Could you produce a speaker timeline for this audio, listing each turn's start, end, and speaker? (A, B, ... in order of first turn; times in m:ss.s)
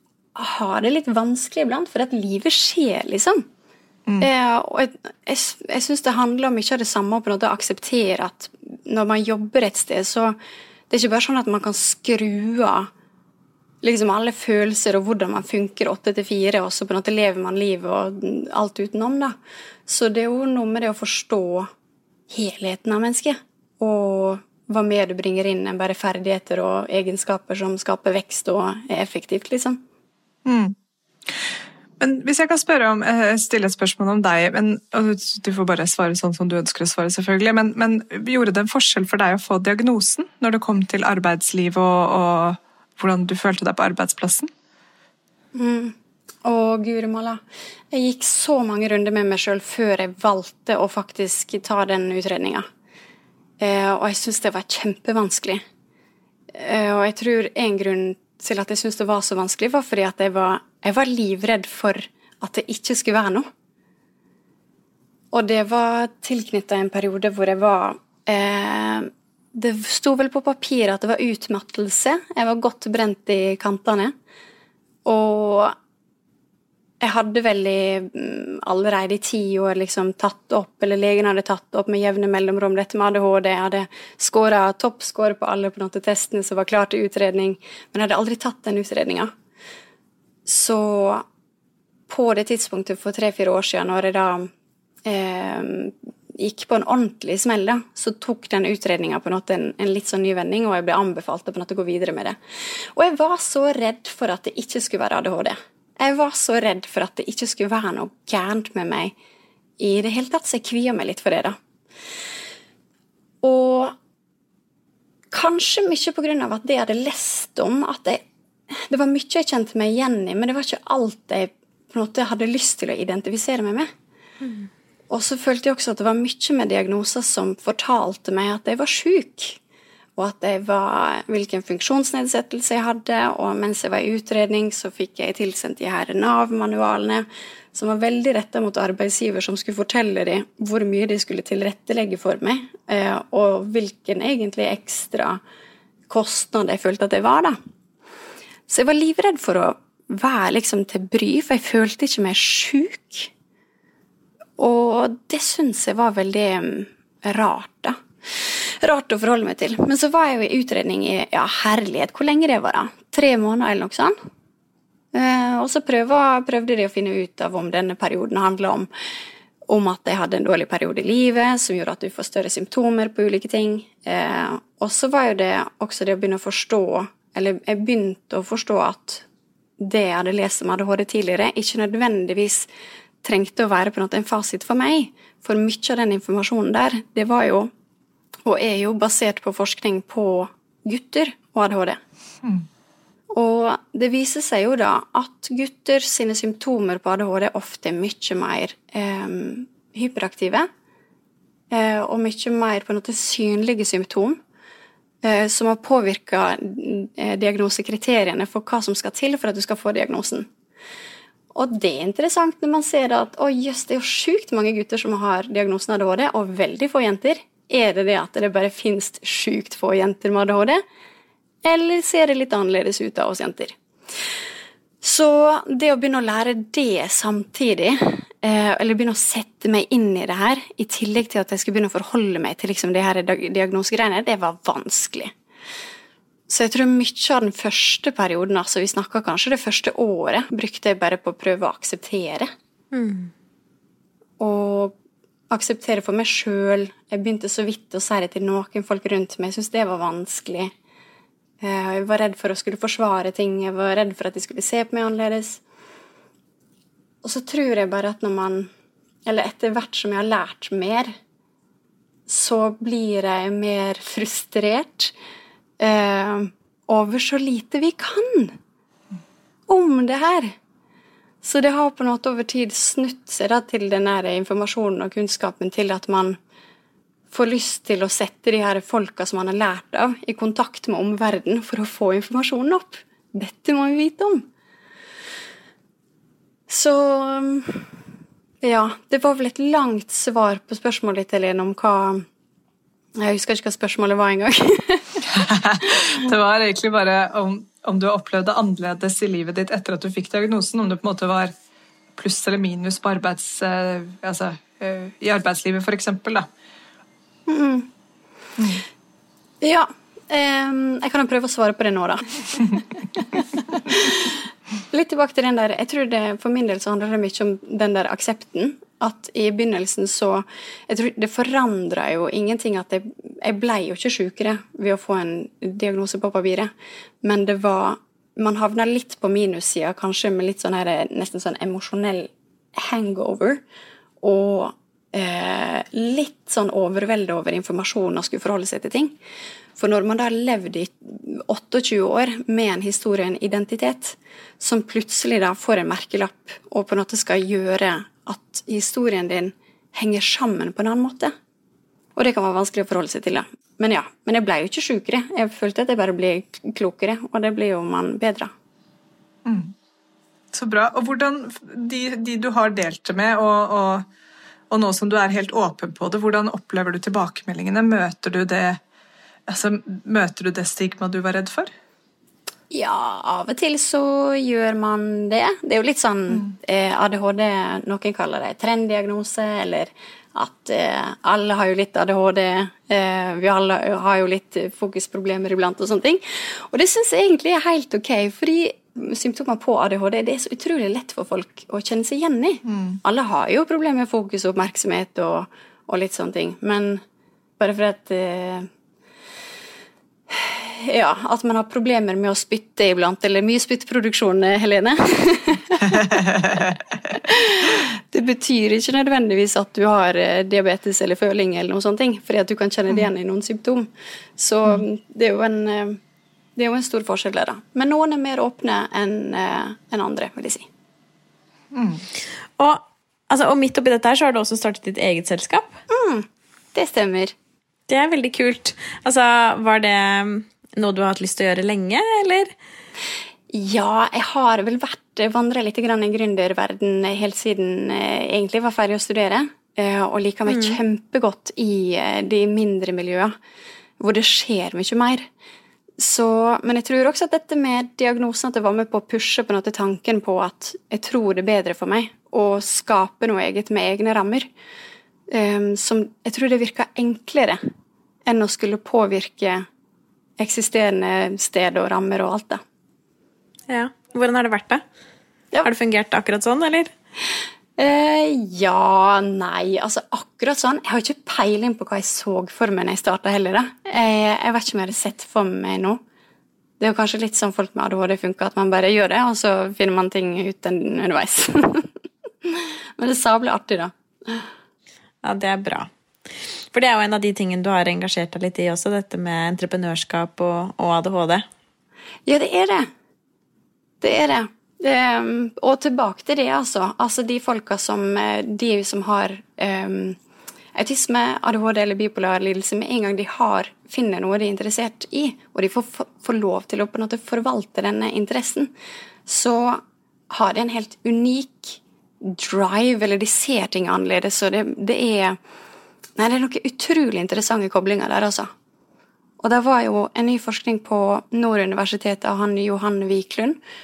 0:00.4-0:03.4 A
0:04.2-0:10.4 A
0:10.9-0:12.9 A
0:13.8-0:19.3 A
0:19.9-0:21.7 A
0:22.3-0:29.8 A
0:30.4-0:30.7 B
0:32.0-0:44.5 B
0:45.5-0:52.6 A
0:53.6-0:55.6 A
0:56.5-1:03.5 A
1:05.3-1:14.1 A
1:15.0-1:15.7 A
1:17.0-1:29.3 A
1:30.4-1:31.2 A
1:32.1-1:34.5 A
1:35.0-1:42.4 A
1:42.9-1:49.1 A
1:49.8-1:51.6 A
1:53.4-1:53.9 A
1:55.3-1:58.2 A
1:58.9-2:03.9 A
2:05.1-2:09.6 A
2:10.2-2:25.4 A
2:26.1-2:27.6 A
2:28.7-2:33.3 A
2:34.6-2:44.1 A
2:45.1-2:48.9 A
2:49.7-2:59.2 A
2:59.8-3:02.7 A
3:03.2-3:07.7 A
3:08.4-3:12.0 A
3:13.3-3:20.7 A
3:21.7-3:24.4 A
3:25.2-3:30.5 A
3:31.5-3:40.8 A
3:41.6-3:43.7 A
3:45.0-3:55.3 A
3:56.5-4:02.5 A
4:02.9-4:03.3 C
4:04.4-4:05.0 A
4:05.5-4:10.7 A
4:11.6-4:15.6 A
4:17.2-4:18.7 A
4:19.2-4:21.1 A
4:22.3-4:25.1 A
4:25.8-4:28.6 A
4:29.7-4:30.5 A
4:31.4-4:36.4 A
4:37.3-4:44.4 A
4:46.7-4:47.9 A
4:48.6-4:52.2 A
4:53.2-4:55.2 A
4:55.3-5:01.5 B
5:02.2-5:06.5 B
5:07.5-5:07.9 A
5:08.6-5:08.8 B
5:09.6-5:26.7 A
5:27.2-5:33.6 A
5:34.2-5:39.2 A
5:39.8-5:51.3 A
5:52.2-5:58.5 A
5:59.4-5:59.7 B
6:00.5-6:04.0 B
6:04.7-6:08.8 B
6:09.5-6:11.7 B
6:12.7-6:37.0 A
6:32.7-6:33.0 B
6:37.6-6:38.7 A
6:40.3-6:46.2 A
6:47.1-6:56.0 A
6:56.6-7:00.7 A
7:01.7-7:02.0 B
7:02.6-7:05.7 C
7:05.9-7:07.3 A
7:07.9-7:12.5 C
7:13.5-7:23.3 A
7:20.5-7:20.8 C
7:24.0-7:25.3 A
7:26.0-7:34.5 A
7:35.3-7:37.6 A
7:38.3-7:39.6 A
7:40.4-7:42.6 A
7:43.7-7:44.8 C
7:45.6-7:46.9 C
7:47.8-7:56.0 A
7:56.8-8:01.9 A
8:02.4-8:04.5 A
8:05.2-8:05.9 C
8:06.7-8:11.4 C
8:12.2-8:12.9 A
8:14.0-8:20.2 A
8:20.8-8:28.7 A
8:29.2-8:35.4 A
8:36.2-8:38.5 A
8:39.4-8:43.6 A